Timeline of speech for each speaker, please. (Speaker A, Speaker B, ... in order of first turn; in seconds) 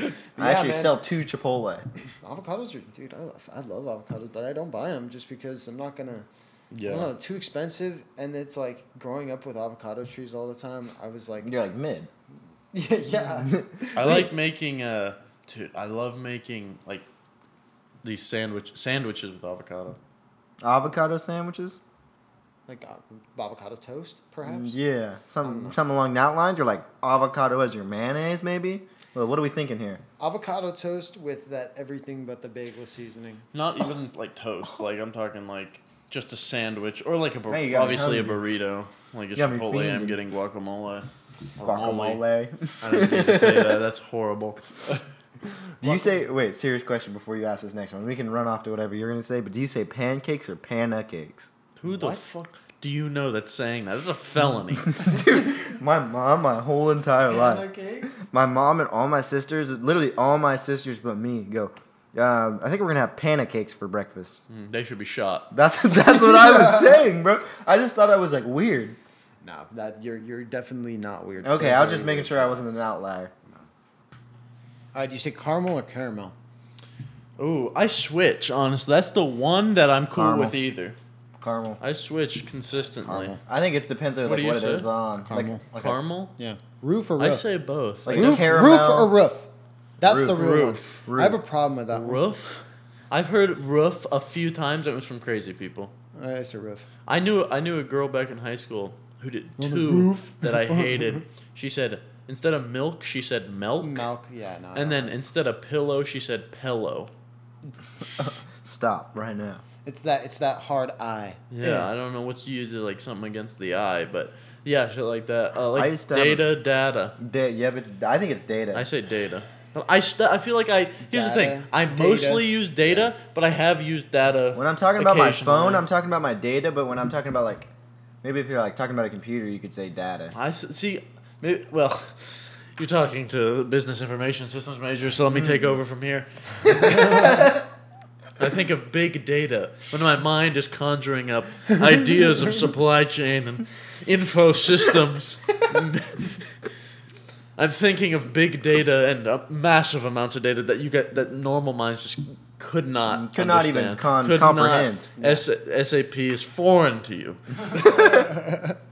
Speaker A: 0.4-1.0, 2.2-6.3, 6.8-11.5, 12.7-14.3, 22.7-24.8, 25.4-25.8, 30.2-33.5, 45.8-46.2, 51.9-52.3, 57.3-58.3, 69.4-72.7, 74.9-76.3, 83.0-83.4, 85.3-85.6, 86.4-87.5, 88.1-89.5, 90.0-92.2, 96.2-96.9, 99.6-101.2, 103.8-105.2, 109.8-111.9, 121.1-123.0, 155.2-155.4, 157.7-158.8
Speaker B: 0.4-1.9, 11.4-12.1, 13.4-14.2, 20.6-21.8, 24.4-30.0, 37.5-38.4, 39.4-40.2, 41.6-43.8, 45.8-51.5, 55.0-57.7, 58.3-64.4, 65.5-69.0, 71.4-73.3, 80.1-80.6, 81.4-81.8, 83.5-86.0, 88.0-89.1, 90.0-90.4, 91.0-91.4, 108.2-109.6, 115.7-116.5, 117.2-118.9, 124.5-127.7, 128.2-130.3, 153.1-155.1
Speaker C: 6.7-7.1, 13.9-17.1, 18.0-20.0, 33.5-42.2, 42.8-45.0, 51.8-55.0, 64.5-65.5, 77.4-81.0, 81.8-83.3, 84.2-84.9, 85.7-86.3, 87.2-88.5, 90.3-91.0, 91.9-95.9, 97.1-104.1, 104.8-107.1, 111.5-117.2, 118.7-125.9, 130.3-137.6, 138.4-146.6, 147.6-158.3